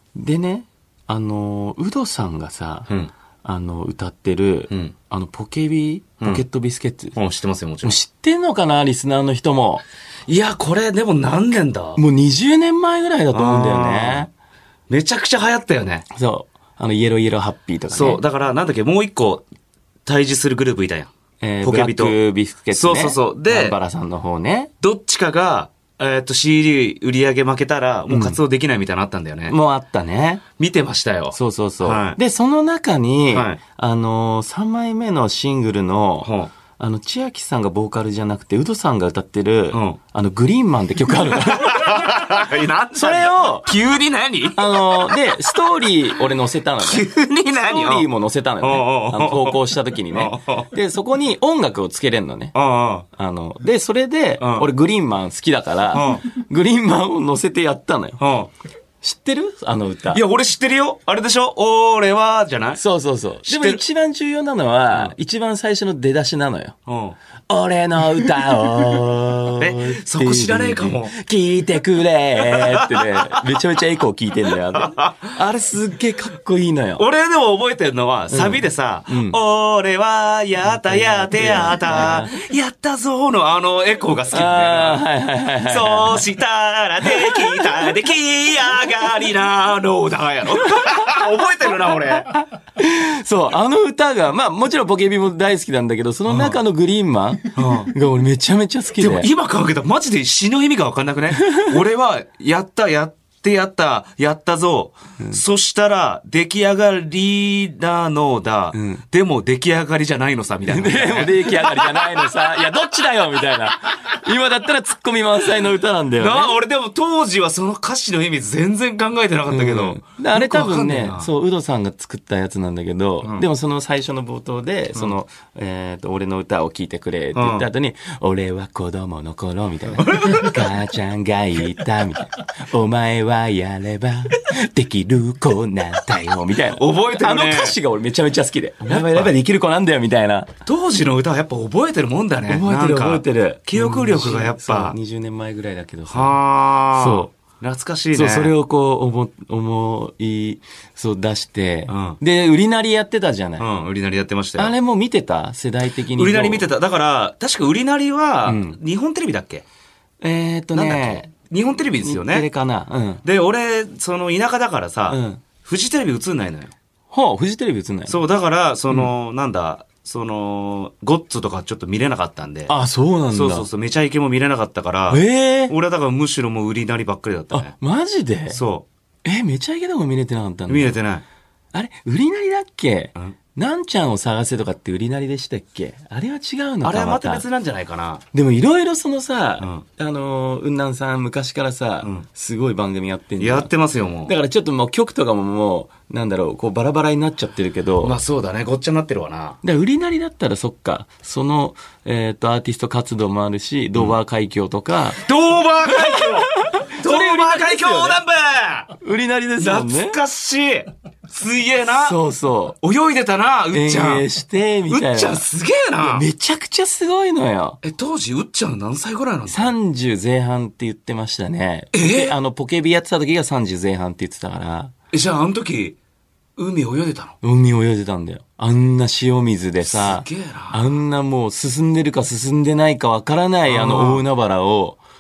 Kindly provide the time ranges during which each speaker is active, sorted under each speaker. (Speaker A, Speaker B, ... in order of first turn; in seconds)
Speaker A: 0.2-2.9, 3.4-7.2, 7.8-9.8, 12.0-14.3, 16.1-18.2, 21.4-24.7, 28.1-28.4, 29.5-30.4, 31.3-42.1, 43.0-43.7, 44.5-52.5, 53.1-58.2, 59.0-60.2, 62.8-66.8, 67.5-77.0, 78.3-79.4, 80.9-82.4, 84.3-86.3, 87.0-87.9, 92.8-99.3, 108.7-109.0, 110.7-116.5, 119.5-140.5, 142.5-146.4, 146.9-147.3, 148.1-153.7, 154.6-156.7, 158.5-158.8, 160.2-161.3, 162.0-163.2, 165.1-165.4, 167.1-168.2, 172.7-173.7, 175.1-175.8, 177.5-178.6, 179.2-181.0, 181.7-187.4, 188.3-193.7, 194.3-198.2, 199.6-205.2, 206.0-208.2, 209.0-210.2, 212.0-212.8, 213.7-215.4, 216.0-217.8, 219.5-224.9, 227.4-235.0
Speaker B: 7.2-8.0, 10.3-12.0, 13.3-14.3, 14.9-16.1, 17.9-19.5, 20.1-21.1, 21.6-22.2, 22.7-23.8, 24.8-29.6, 30.6-32.2, 33.3-33.6, 36.2-36.5, 39.7-40.0, 41.4-45.3, 46.8-48.1, 48.6-50.7, 52.5-53.1, 54.4-54.7, 55.9-56.3, 58.2-58.5, 60.1-62.8, 63.5-63.8, 66.9-67.2, 69.5-71.1, 72.4-73.4, 74.7-75.3, 77.0-85.0, 85.7-92.3, 96.3-96.6, 97.5-97.9, 99.0-112.5, 116.2-121.3, 127.3-127.7, 130.0-130.7, 136.7-137.8, 138.9-139.3, 140.7-145.0, 146.1-148.5, 151.9-152.2, 153.6-154.7, 156.1-159.7, 160.7-162.5, 163.2-166.7, 168.1-172.7, 173.3-177.7, 178.5-178.9, 180.7-181.2, 186.8-188.2, 189.6-189.8, 193.4-194.3, 198.0-199.6, 205.2-208.9, 209.6-212.2, 212.8-214.3, 214.9-216.3, 217.8-219.7, 221.9-222.3, 225.1-226.0, 226.6-227.4, 229.8-230.9, 233.7-234.2